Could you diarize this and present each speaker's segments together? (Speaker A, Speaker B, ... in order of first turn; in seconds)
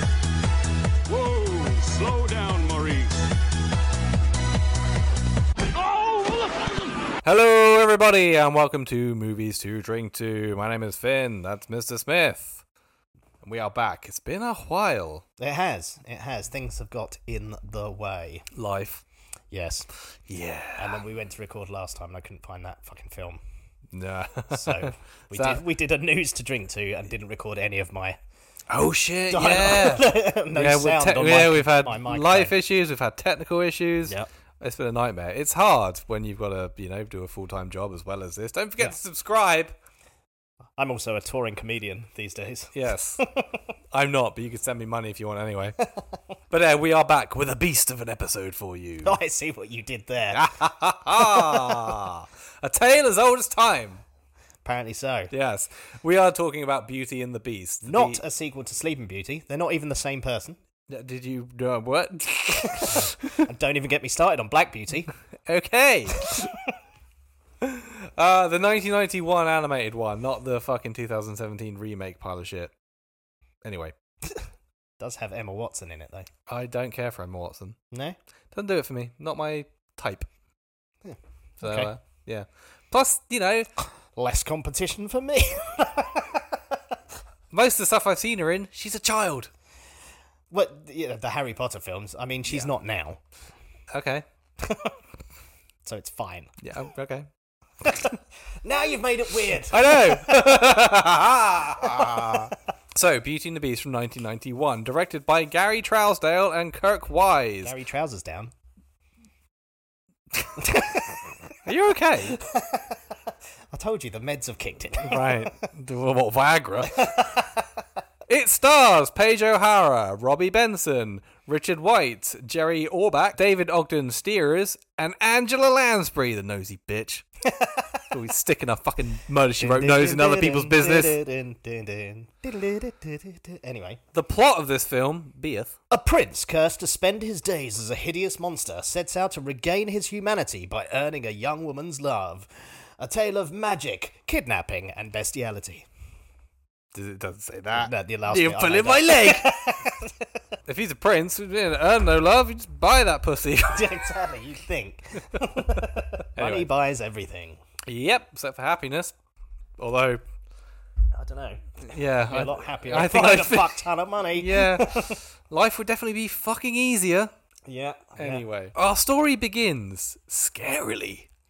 Speaker A: 1.1-3.2, 5.7-6.7
Speaker B: 7.2-12.6, 13.4-15.2, 18.5-19.0, 20.3-21.0, 23.9-25.6, 28.7-39.8, 42.8-43.2, 43.9-45.8, 46.5-49.2, 50.3-54.0, 55.3-58.2, 60.9-63.4, 65.5-66.3, 67.6-72.7, 73.6-74.0, 76.5-77.8, 78.5-80.3, 81.6-83.7, 87.5-89.5, 93.9-94.2, 96.6-97.3, 99.7-107.7, 111.7-112.4, 115.0-117.3, 118.3-127.2, 128.1-131.2, 134.1-135.7, 146.9-149.5, 150.7-154.1, 155.3-155.8, 156.3-156.7, 157.9-159.1, 159.8-160.2, 161.8-167.3, 168.2-171.3
Speaker C: 15.4-18.5, 19.5-19.9, 20.8-23.4, 24.5-28.2, 29.3-32.5, 40.8-43.5, 49.0-50.6, 51.1-51.9, 54.6-55.3, 57.8-60.6, 62.8-65.1, 66.3-66.6, 75.0-76.3, 77.9-78.2, 81.0-81.9, 84.2-86.6, 90.5-93.2, 94.6-94.9, 95.8-96.5, 97.8-100.5, 101.8-102.5, 107.6-108.5, 110.5-111.3, 112.3-113.0, 113.7-115.6, 116.9-117.7, 127.5-128.1, 129.6-134.0, 135.9-142.5, 143.0-145.9, 147.7-150.1, 153.7-157.6, 161.1-165.2, 167.7-168.4